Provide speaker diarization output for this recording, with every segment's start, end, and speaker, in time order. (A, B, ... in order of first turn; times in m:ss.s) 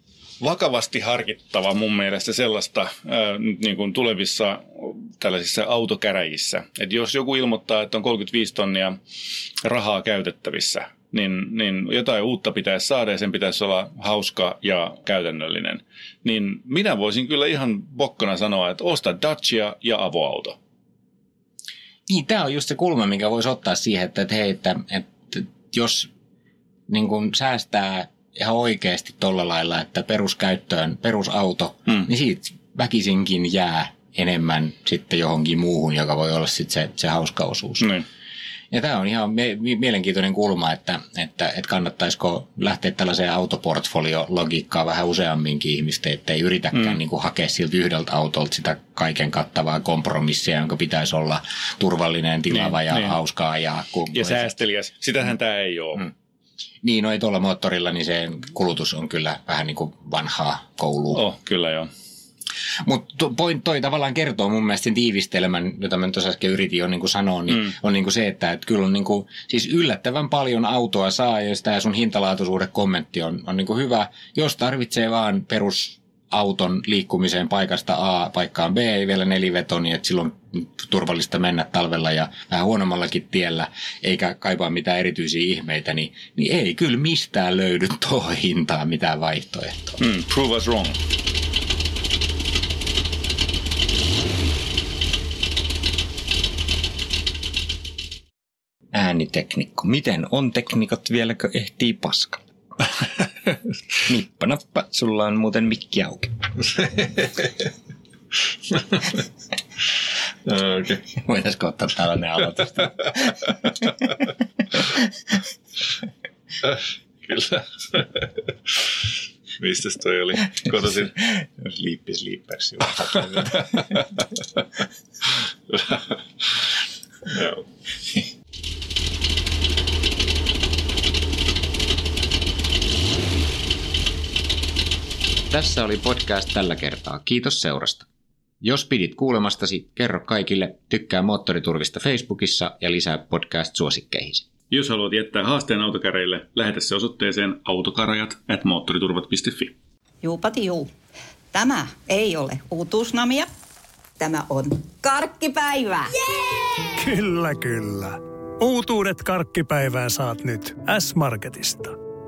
0:00.4-0:09.0 A
0:09.6-0:20.6 A
0:22.1-0:26.1 B
0:26.9-0:37.9 B
0:37.8-0:38.1 A
0:38.7-0:54.5 B
0:52.5-0:53.2 A
0:54.1-0:56.1 A
0:56.8-1:01.2 B
1:01.1-1:01.9 A
1:02.9-1:30.0 B
1:30.0-1:31.0 A
1:38.9-1:42.4 B
1:44.0-1:46.4 B
1:48.7-1:49.2 A
1:50.5-1:51.0 A
1:51.1-1:53.8 B
1:54.7-1:55.1 B
1:56.6-1:58.3 A
1:59.6-2:01.1 A
2:01.1-2:04.0 B
2:03.7-2:04.0 A
2:05.7-2:06.0 A
2:07.3-2:07.6 A
2:15.5-2:18.1 B
2:18.6-2:24.5 B
2:24.7-2:29.8 A
2:30.2-2:30.9 C
2:31.5-2:33.5 C
2:34.2-2:36.9 C
2:37.0-2:42.0 D